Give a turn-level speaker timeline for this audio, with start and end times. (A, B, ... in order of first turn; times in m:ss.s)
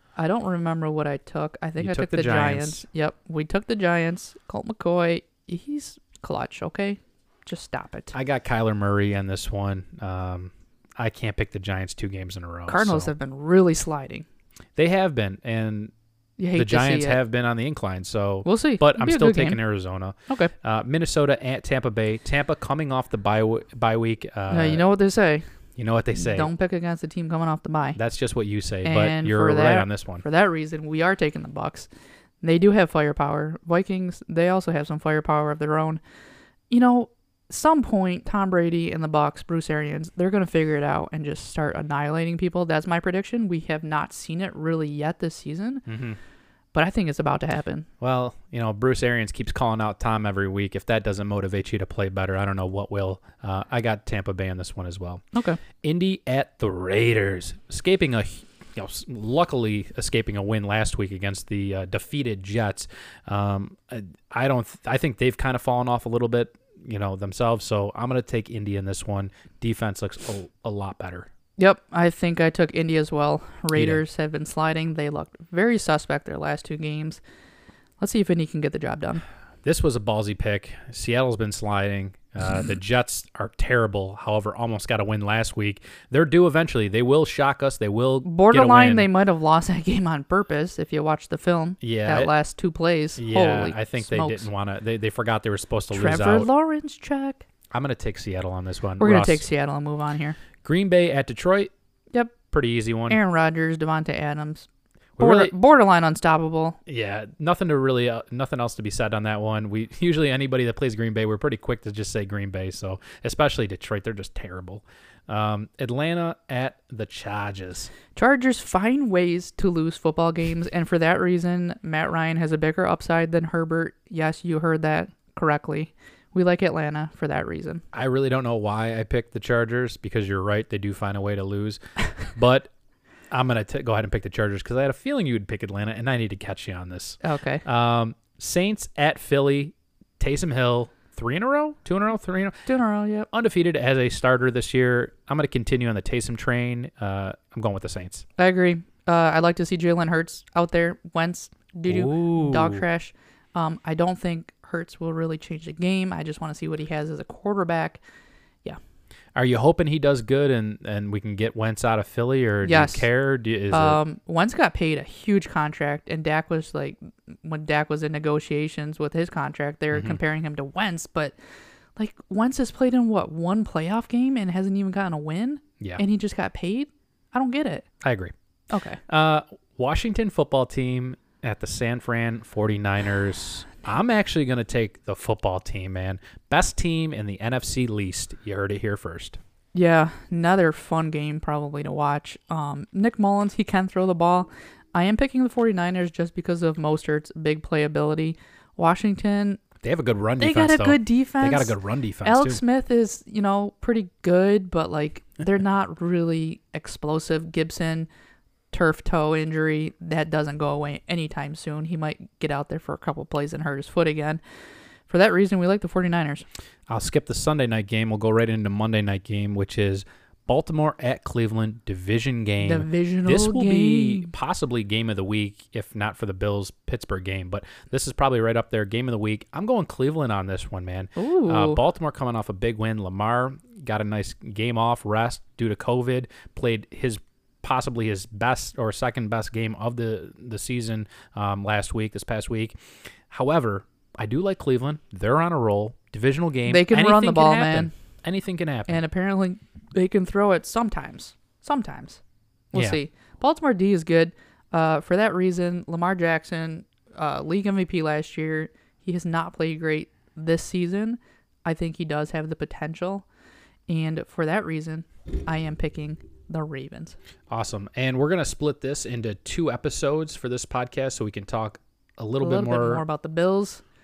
0:00.2-0:08.1 A
0:01.8-0:02.8 B
0:08.1-0:13.1 B
0:12.7-0:14.2 A
0:14.8-0:15.9 B
0:16.4-0:17.2 A
0:16.5-0:24.8 B
0:18.4-0:19.6 A
0:20.3-0:20.5 A
0:24.5-0:25.4 A
0:25.8-0:26.5 B
0:26.1-0:28.0 A
0:27.9-0:30.2 B
0:28.8-0:31.9 A
0:32.4-0:36.0 A
0:36.7-0:45.8 A
0:45.9-0:46.2 B
0:46.7-0:47.9 A
0:48.0-0:55.2 B
0:55.3-0:55.6 A
0:55.8-1:11.3 B
1:11.6-1:17.2 A
1:13.7-1:14.0 B
1:18.0-1:19.2 A
1:19.6-1:29.1 B
1:28.2-1:34.4 A
1:31.8-1:32.3 B
1:33.2-1:36.5 B
1:35.9-1:37.4 A
1:37.7-1:39.4 B
1:39.0-1:40.4 A
1:40.6-1:41.7 B
1:42.5-1:43.2 B
1:43.1-1:44.7 A
1:45.2-1:45.5 B
1:45.2-1:46.8 A
1:46.9-1:57.9 B
1:58.2-2:07.8 A
2:07.9-2:12.7 B
2:13.3-2:22.6 B
2:17.2-2:17.6 A
2:22.7-2:23.3 A
2:23.3-2:28.2 B
2:28.4-2:38.0 A
2:31.9-2:32.8 B
2:39.4-2:44.0 B
2:42.6-2:43.0 A
2:43.7-2:51.3 A
2:49.9-2:50.2 B
2:52.0-2:57.9 A
2:58.0-2:58.3 B
2:58.7-2:59.0 A
2:59.1-3:09.4 B
3:09.7-3:19.6 A
3:19.8-3:22.6 B
3:20.4-3:28.1 A
3:28.7-3:34.4 A
3:35.1-3:36.4 A
3:36.9-4:02.8 B
3:42.6-3:44.3 A
3:51.2-3:51.8 A
4:03.3-4:09.0 B
4:06.7-4:07.9 A
4:08.9-4:12.2 A
4:12.7-4:23.2 A
4:12.7-4:13.0 B
4:23.9-4:27.2 A
4:27.5-4:33.0 B
4:32.4-4:33.8 A